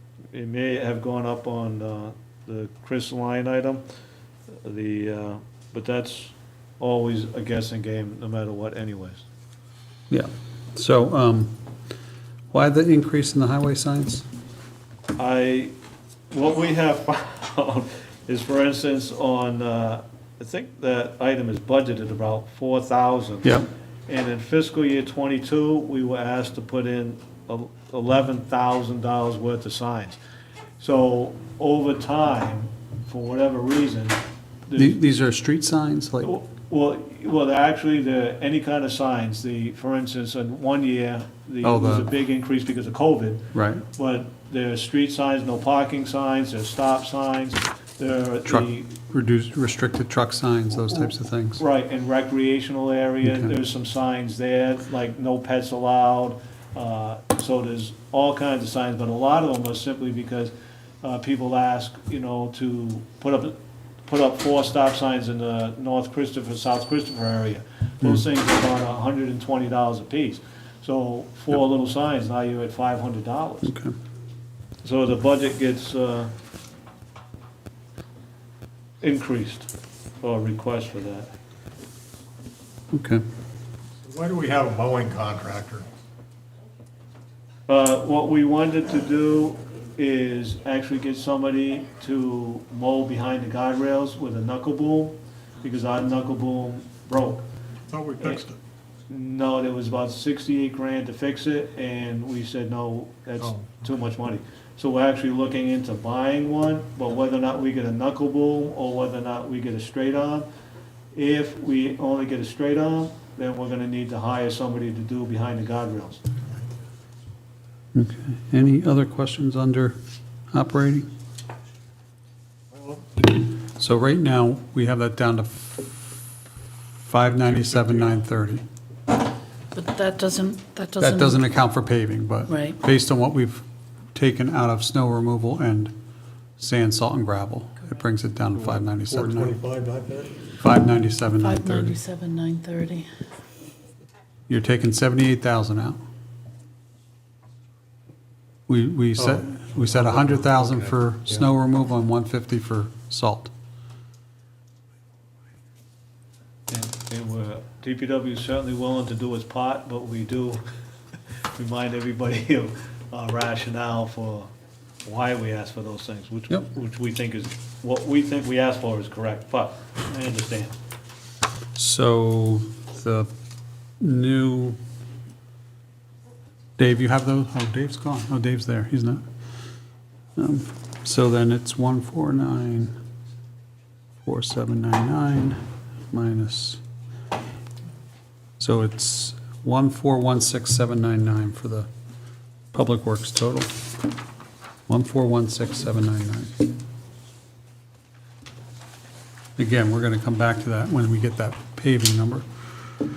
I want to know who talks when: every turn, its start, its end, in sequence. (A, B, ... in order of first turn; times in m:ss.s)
0:00.3-0:03.8 A
0:04.6-0:09.2 A
0:10.1-0:11.5 B
0:12.5-0:14.2 B
0:15.2-0:15.7 A
0:16.3-0:23.5 A
0:24.1-0:30.2 A
0:30.8-0:35.0 A
0:34.8-0:36.3 B
0:36.2-0:49.0 A
0:41.6-0:42.1 B
0:43.5-0:43.8 B
0:48.4-0:51.6 B
0:50.9-1:13.7 A
0:53.2-0:53.5 B
1:13.6-1:13.9 B
1:14.8-1:16.3 A
1:19.0-1:19.7 A
1:20.2-1:21.3 A
1:22.9-1:23.2 B
1:24.0-1:25.9 C
1:27.7-1:37.4 A
1:37.9-1:38.6 C
1:39.1-1:50.5 A
1:43.4-1:43.9 C
1:51.1-1:56.2 A
1:57.9-2:00.0 B
2:00.5-2:01.1 B
2:02.7-2:03.1 C
2:03.7-2:06.0 B
2:07.1-2:08.6 B
2:07.4-2:08.2 C
2:09.7-2:11.5 D
2:11.0-2:13.6 B
2:12.4-2:12.8 D
2:14.1-2:15.9 B
2:16.6-2:19.6 B
2:18.6-2:20.4 C
2:20.6-2:22.0 B
2:21.4-2:23.1 D
2:24.5-2:26.0 B
2:28.7-2:33.5 B
2:29.1-2:31.4 C
2:36.7-2:40.6 A
2:41.6-2:44.5 A
2:45.0-2:50.7 A
2:51.8-2:53.3 B
2:54.0-2:54.8 B
2:56.8-2:59.2 B
3:00.4-3:02.9 B
3:04.2-3:05.6 B
3:06.1-3:06.8 B
3:08.6-3:11.9 B
3:12.7-3:13.7 B
3:14.9-3:16.6 B
3:19.6-3:22.4 B